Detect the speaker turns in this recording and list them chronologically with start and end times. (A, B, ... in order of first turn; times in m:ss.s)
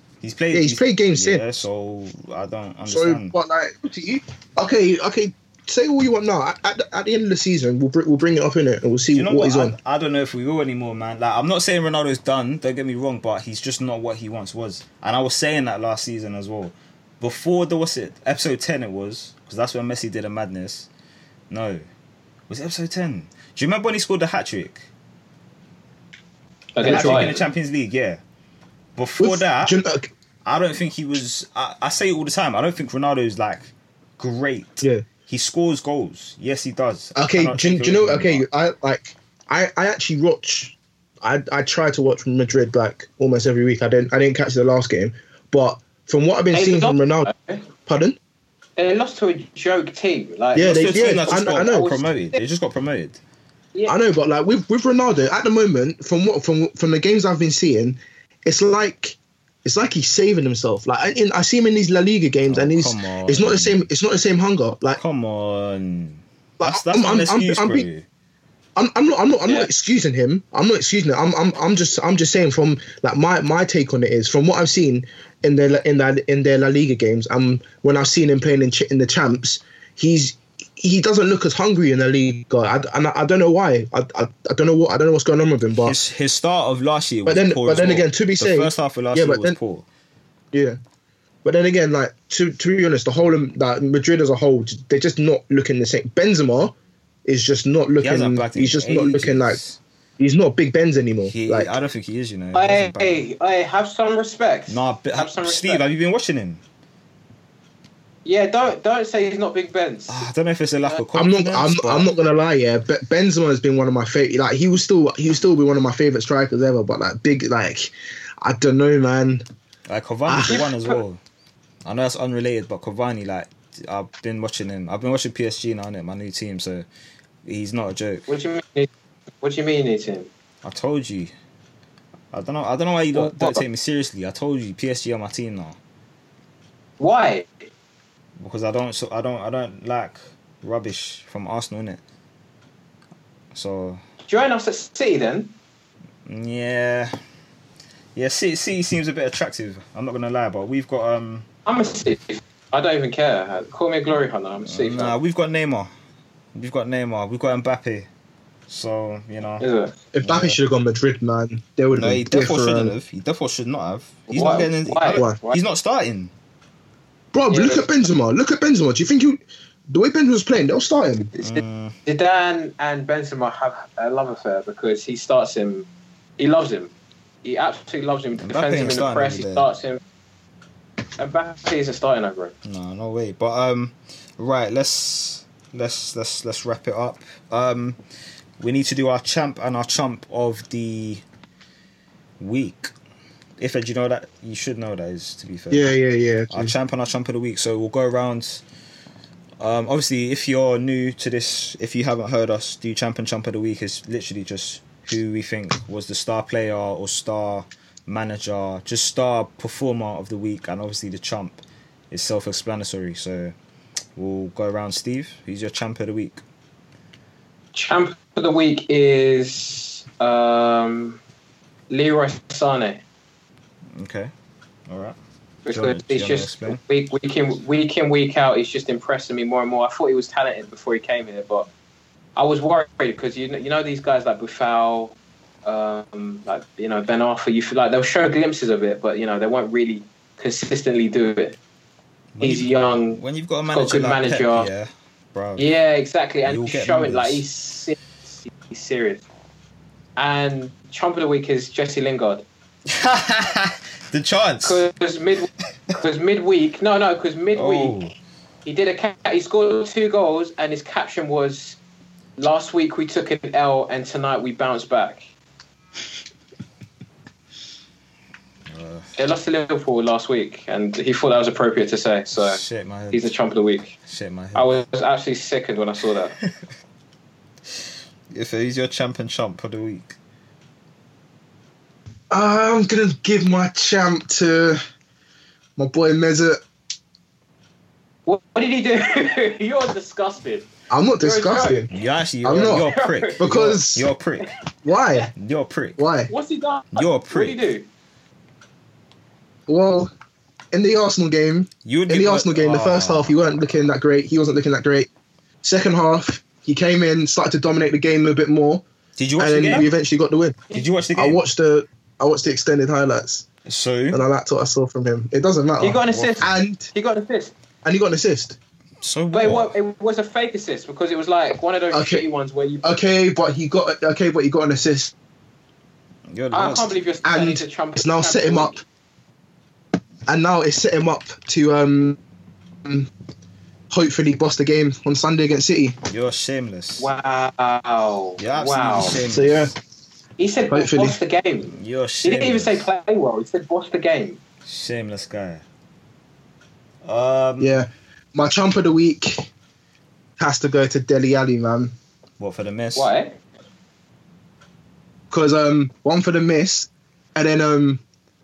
0:00.2-0:03.4 A
0:00.5-0:01.4 B
0:02.9-0:09.8 B
0:09.1-0:20.9 A
0:21.5-0:21.8 A
0:22.5-0:24.9 A
0:26.8-0:27.4 C
0:26.8-0:28.2 A
0:26.8-0:27.4 B
0:29.0-0:29.8 A
0:29.2-0:30.1 B
0:30.4-0:38.4 A
0:37.2-0:47.3 B
0:46.5-0:47.6 C
0:47.8-0:48.2 B
0:48.8-0:52.4 C
0:50.6-0:51.9 B
0:50.6-0:53.2 A
0:53.9-1:05.0 B
1:02.5-1:03.8 A
1:05.0-1:08.0 A
1:06.6-1:07.9 B
1:08.8-1:26.0 B
1:25.8-1:29.9 A
1:27.2-1:29.6 B
1:30.5-1:30.8 B
1:31.4-1:36.7 B
1:37.3-1:39.6 B
1:38.0-1:39.8 A
1:40.2-1:41.7 B
1:41.3-1:43.2 A
1:42.5-1:45.8 C
1:44.7-1:46.6 A
1:48.2-1:50.2 C
1:50.1-1:52.1 A
1:51.2-1:59.4 B
1:59.9-2:01.2 A
2:00.3-2:00.6 B
2:00.5-2:01.0 C
2:01.8-2:06.9 A
2:07.4-2:08.3 A
2:08.3-2:08.9 C
2:09.4-2:10.3 C
2:10.6-2:11.3 A
2:12.3-2:15.8 A
2:13.1-2:13.6 C
2:17.0-2:17.7 C
2:18.4-2:22.0 A
2:23.5-2:24.0 A
2:24.3-2:25.5 C
2:26.3-2:27.2 A
2:28.2-2:31.5 A
2:31.7-2:35.2 C
2:34.7-2:35.9 A
2:36.6-2:38.1 A
2:38.7-2:39.6 A
2:39.6-2:40.0 C
2:40.1-2:43.0 B
2:40.2-2:40.6 A
2:42.0-2:46.3 A
2:44.3-2:45.6 C
2:45.1-2:45.4 B
2:47.3-2:51.3 B
2:47.5-2:47.9 C
2:51.4-2:55.9 C
2:51.4-2:52.0 A
2:56.4-2:56.9 C
2:57.4-3:00.0 C
2:58.4-2:59.7 A
3:01.2-3:02.5 C
3:02.6-3:08.0 A
3:08.6-3:11.2 A
3:12.4-3:12.9 A
3:13.6-3:15.9 A
3:15.7-3:16.8 B
3:16.5-3:18.6 A
3:19.6-3:33.5 A
3:34.2-3:36.4 A
3:37.7-3:41.2 C
3:41.9-3:43.0 C
3:44.0-3:44.3 A
3:44.9-3:45.2 A
3:45.6-3:51.7 C
3:45.7-3:46.8 A
3:52.4-4:01.6 C
4:02.4-4:05.7 A
4:02.4-4:03.2 C
4:03.7-4:04.7 C
4:05.6-4:09.3 C
4:06.5-4:07.4 A
4:10.2-4:12.5 C
4:12.9-4:14.8 A
4:14.6-4:18.0 C
4:17.6-4:18.1 A
4:18.6-4:21.8 C
4:22.4-4:25.2 C
4:28.7-4:29.2 A
4:29.2-4:34.0 C
4:32.4-4:33.2 A
4:34.1-4:34.7 A
4:34.6-4:36.4 C
4:38.3-4:40.2 A
4:42.3-4:44.8 B
4:45.8-4:46.6 B
4:48.3-4:50.7 C
4:50.9-4:51.9 B
4:51.2-4:51.9 C
4:51.9-4:54.5 A
4:52.4-4:52.9 B
4:52.5-4:53.4 C
4:53.4-4:54.1 B
4:54.8-4:55.3 B
4:55.4-4:56.0 A
4:56.0-4:56.3 B
4:56.3-4:57.9 C
4:57.0-4:57.6 A
4:59.7-5:00.1 B
5:00.7-5:05.1 B
5:01.8-5:03.5 A
5:05.6-5:08.8 B
5:09.2-5:09.9 A
5:09.4-5:13.5 B
5:10.7-5:11.4 A
5:13.6-5:14.2 A
5:14.1-5:16.9 B
5:15.8-5:17.5 C
5:16.0-5:16.6 A
5:17.8-5:18.6 B
5:19.0-5:19.8 A
5:19.3-5:22.9 C
5:21.9-5:22.2 B
5:22.8-5:25.1 B
5:26.3-5:27.0 A
5:26.5-5:28.8 C
5:27.2-5:28.8 B
5:30.3-5:32.2 B
5:32.8-5:33.1 B
5:33.9-5:36.0 B
5:36.1-5:37.1 A
5:37.0-5:39.2 C
5:38.4-5:39.7 A
5:39.3-5:39.7 B
5:40.4-5:44.4 C
5:40.7-5:41.2 B
5:41.7-5:42.9 A
5:44.6-5:45.6 A
5:47.0-5:47.8 A
5:47.6-5:49.5 B
5:50.4-5:52.0 B
5:52.4-5:53.1 A
5:53.0-5:53.4 C
5:55.3-5:58.0 B